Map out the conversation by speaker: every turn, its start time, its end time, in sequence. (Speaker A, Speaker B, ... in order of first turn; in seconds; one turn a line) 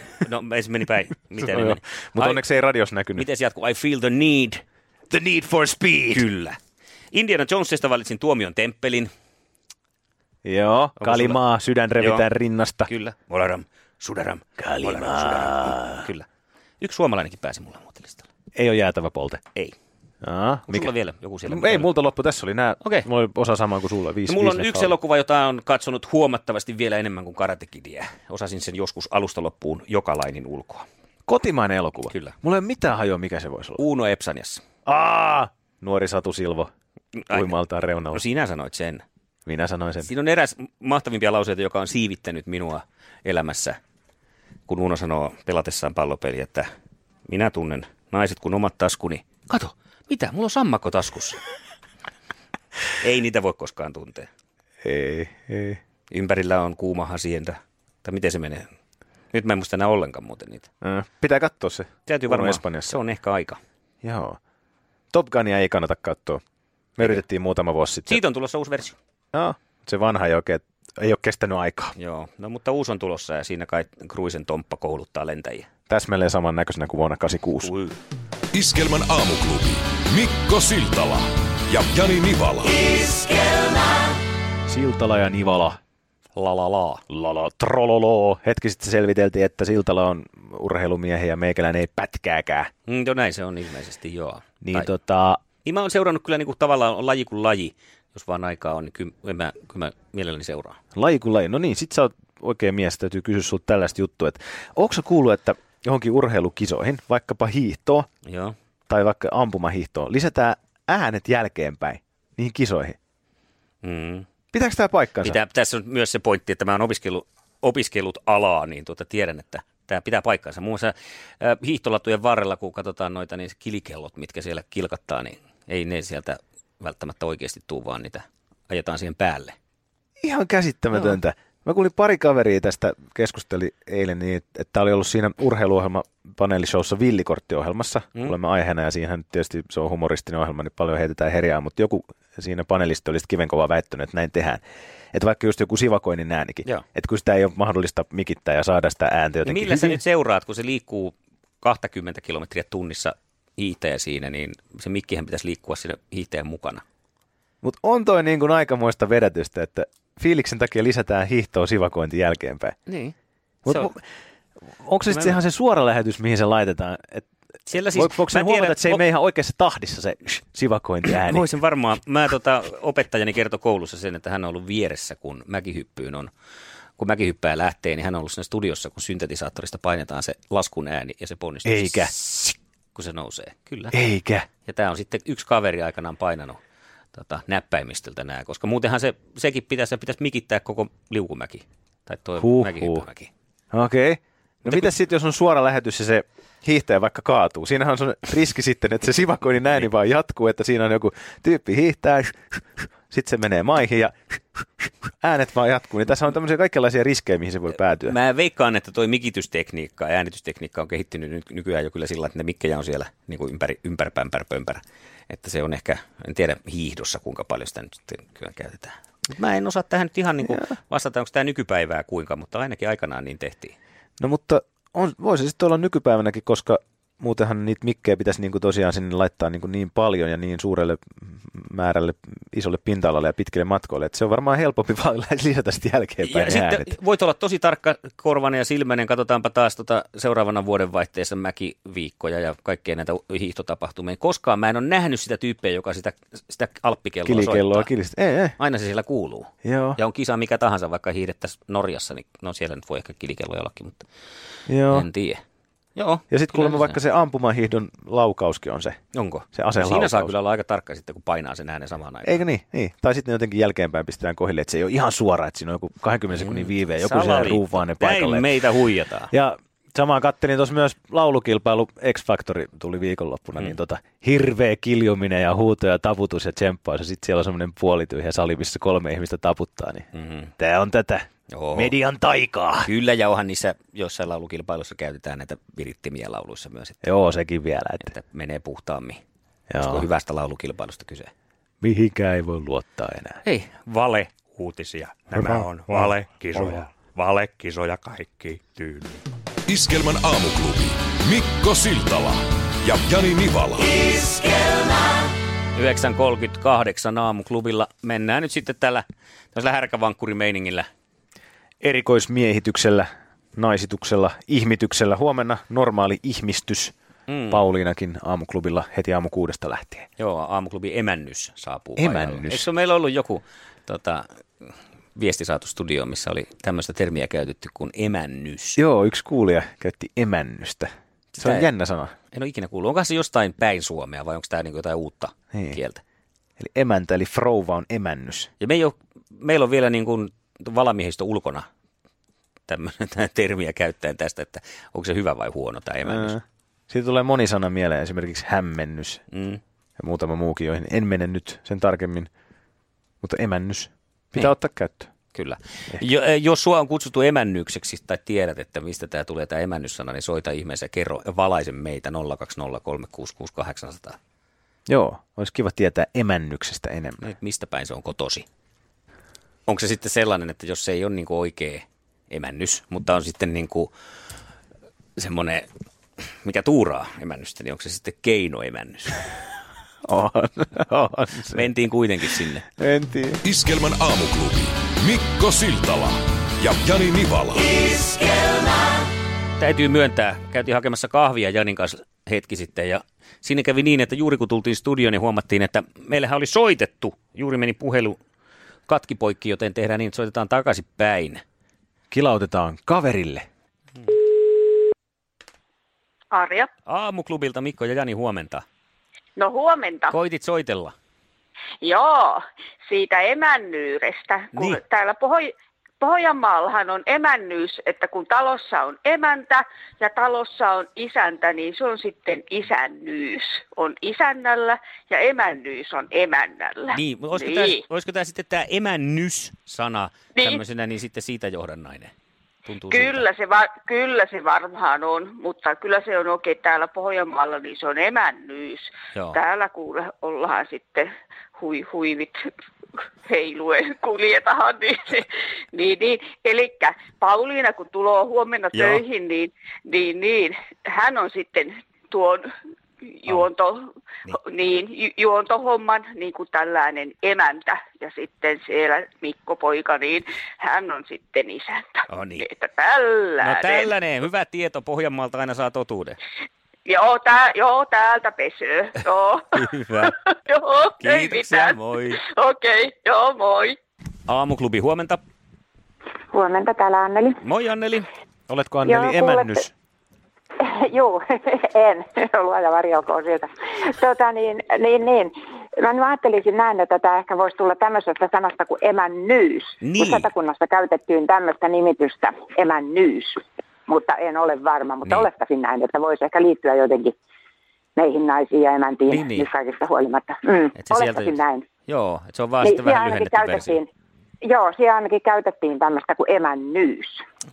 Speaker A: 0.2-2.4
Speaker B: 1.4-3.3
Speaker A: 3.1-4.6
Speaker B: 5.1-6.2
Speaker A: 6.1-6.6
Speaker A: 7.1-9.1
Speaker B: 10.4-12.9
Speaker A: 11.0-11.4
Speaker A: 12.0-12.2
Speaker A: 12.9-16.3
Speaker B: 14.6-16.1
Speaker A: 16.8-18.3
Speaker B: 18.5-19.4
Speaker B: 20.2-20.9
Speaker A: 20.7-21.9
Speaker B: 21.4-24.9
Speaker A: 24.3-30.9
Speaker B: 31.3-33.8
Speaker A: 32.1-32.3
Speaker A: 33.8-34.6
Speaker B: 34.9-36.7
Speaker A: 37.1-37.5
Speaker B: 37.3-38.2
Speaker A: 38.1-39.0
Speaker B: 39.5-40.1
Speaker A: 40.0-43.8
Speaker A: 44.7-46.7
Speaker A: 47.3-51.4
Speaker A: 53.0-54.3
Speaker B: 54.8-55.8
Speaker A: 56.1-58.7
Speaker A: 59.3-60.7
Speaker B: 60.8-63.0
Speaker A: 62.1-63.6
Speaker B: 64.0-64.4
Speaker B: 65.1-66.4
Speaker B: 67.0-68.2
Speaker A: 68.1-69.0
Speaker B: 69.3-71.9
Speaker A: 72.0-75.7
Speaker B: 75.9-77.7
Speaker A: 77.6-78.0
Speaker C: 78.5-83.1
Speaker B: 84.7-85.8
Speaker A: 86.3-87.0
Speaker B: 87.1-92.7
Speaker A: 92.9-94.9
Speaker B: 94.6-95.4
Speaker A: 95.6-100.8
Speaker B: 100.9-108.1
Speaker A: 108.2-108.5
Speaker B: 108.9-113.0
Speaker A: 113.8-114.2
Speaker B: 114.5-115.4
Speaker A: 115.2-129.6
Speaker B: 130.2-144.6
Speaker B: 145.1-150.0
Speaker A: 149.4-156.8
Speaker B: 157.6-162.8
Speaker A: 162.9-163.1
Speaker B: 163.6-164.0
Speaker B: 164.8-171.5
Speaker A: 165.1-165.4
Speaker A: 167.7-169.0
Speaker A: 171.1-176.3
Speaker A: 177.0-182.1
Speaker B: 181.6-182.5
Speaker A: 182.9-184.0
Speaker B: 183.9-184.5
Speaker A: 184.7-186.6
Speaker A: 187.1-193.3
Speaker B: 192.4-193.0
Speaker B: 193.7-208.2
Speaker A: 208.1-223.7
Speaker B: 220.4-220.7
Speaker B: 224.2-236.9
Speaker A: 236.2-247.9
Speaker B: 247.2-248.6
Speaker A: 248.6-254.0
Speaker B: 249.6-250.0
Speaker B: 254.7-255.1
Speaker A: 254.9-255.4
Speaker A: 255.9-257.0
Speaker B: 256.3-259.0
Speaker A: 259.1-262.4
Speaker B: 259.5-260.3
Speaker B: 262.2-268.5
Speaker A: 266.3-269.3
Speaker B: 269.3-280.1
Speaker A: 280.1-280.5
Speaker B: 280.6-282.9
Speaker A: 281.5-281.9
Speaker A: 282.8-287.0
Speaker B: 287.0-288.1
Speaker A: 288.0-289.2
Speaker B: 289.7-290.1
Speaker A: 289.8-291.3
Speaker B: 291.8-293.4
Speaker D: 293.7-299.2
Speaker B: 295.3-296.8
Speaker C: 299.7-304.1
Speaker A: 305.7-310.9
Speaker B: 311.8-316.9
Speaker A: 317.3-317.6
Speaker B: 317.5-320.1
Speaker A: 320.2-328.8
Speaker B: 322.0-322.7
Speaker B: 328.8-332.1
Speaker A: 331.3-331.7
Speaker A: 332.3-336.0
Speaker B: 336.6-338.5
Speaker A: 338.6-341.7
Speaker A: 342.7-346.4
Speaker B: 346.0-349.2
Speaker A: 349.3-349.6
Speaker B: 350.0-352.3
Speaker B: 353.2-355.1
Speaker A: 355.3-364.2
Speaker B: 364.9-367.2
Speaker A: 367.2-368.4
Speaker A: 369.7-373.9
Speaker A: 375.2-375.7
Speaker A: 376.4-379.2
Speaker B: 380.0-381.7
Speaker A: 381.5-382.7
Speaker B: 382.8-383.4
Speaker C: 383.4-388.1
Speaker A: 389.6-398.2
Speaker A: 398.9-401.4
Speaker B: 402.1-403.4
Speaker E: 406.3-406.7
Speaker A: 406.9-408.6
Speaker E: 409.4-410.1
Speaker A: 410.1-410.9
Speaker E: 411.8-427.8
Speaker A: 414.5-414.8
Speaker A: 426.9-432.1
Speaker E: 430.4-430.6
Speaker A: 432.6-433.2
Speaker E: 432.9-442.4
Speaker E: 443.2-452.5
Speaker A: 448.7-449.0
Speaker E: 453.1-463.9
Speaker A: 462.1-462.4
Speaker A: 463.4-466.2
Speaker E: 466.9-473.8
Speaker A: 469.5-470.1
Speaker A: 471.0-472.2
Speaker A: 474.3-475.2
Speaker F: 476.3-477.4
Speaker A: 477.4-478.1
Speaker B: 478.5-479.7
Speaker F: 478.8-479.7
Speaker F: 480.6-497.1
Speaker A: 489.8-490.3
Speaker F: 497.9-501.6
Speaker A: 499.1-499.5
Speaker A: 500.8-503.8
Speaker F: 502.6-503.9
Speaker F: 504.4-507.2